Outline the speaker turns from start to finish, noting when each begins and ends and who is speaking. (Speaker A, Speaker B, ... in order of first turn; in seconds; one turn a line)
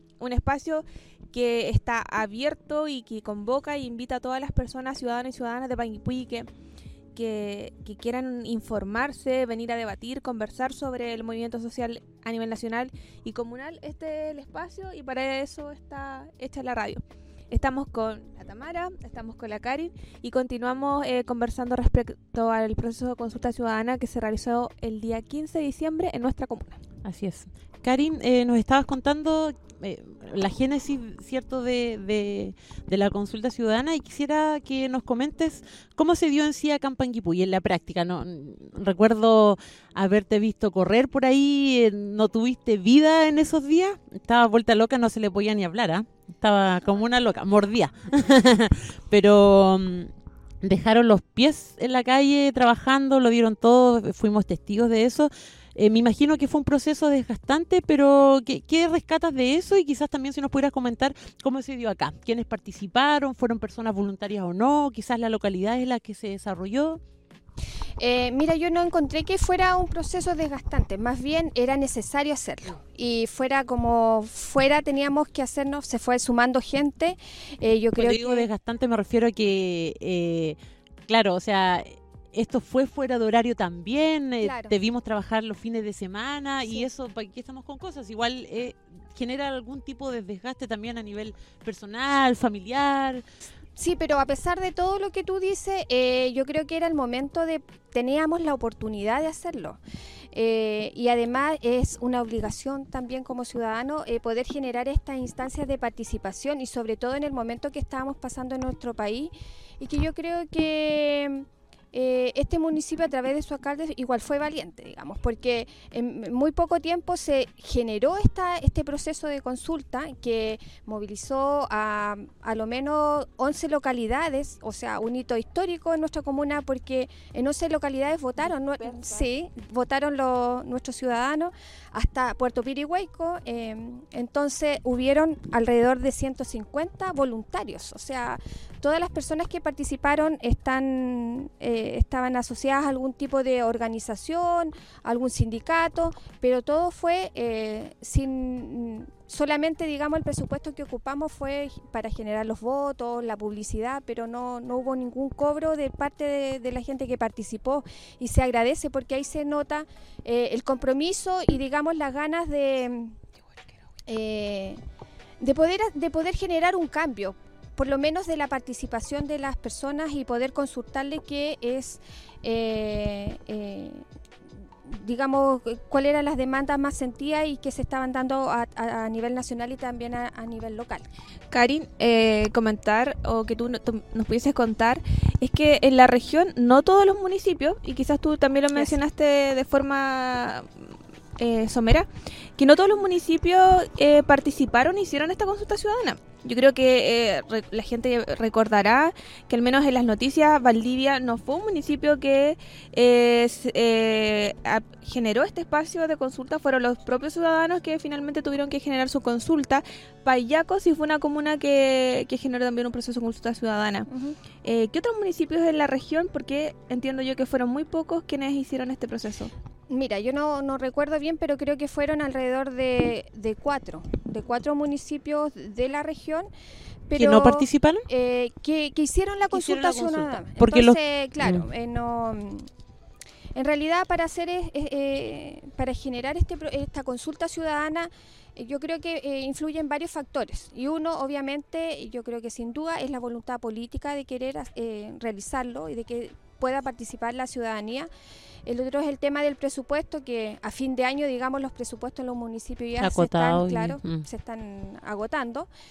Speaker A: 0.2-6.5
Speaker A: 7.2-26.8
Speaker B: 27.0-67.0
Speaker C: 68.0-78.5
Speaker B: 78.0-93.2
Speaker C: 84.4-84.7
Speaker C: 93.8-99.8
Speaker C: 100.3-163.2
Speaker A: 128.4-129.3
Speaker C: 164.1-164.8
Speaker C: 165.4-174.1
Speaker C: 174.8-181.1
Speaker A: 181.5-214.1
Speaker C: 214.1-214.4
Speaker A: 214.6-219.5
Speaker C: 219.9-226.5
Speaker C: 227.1-232.7
Speaker B: 227.1-228.1
Speaker B: 229.5-231.7
Speaker C: 233.6-248.1
Speaker C: 248.7-255.7
Speaker B: 253.0-254.2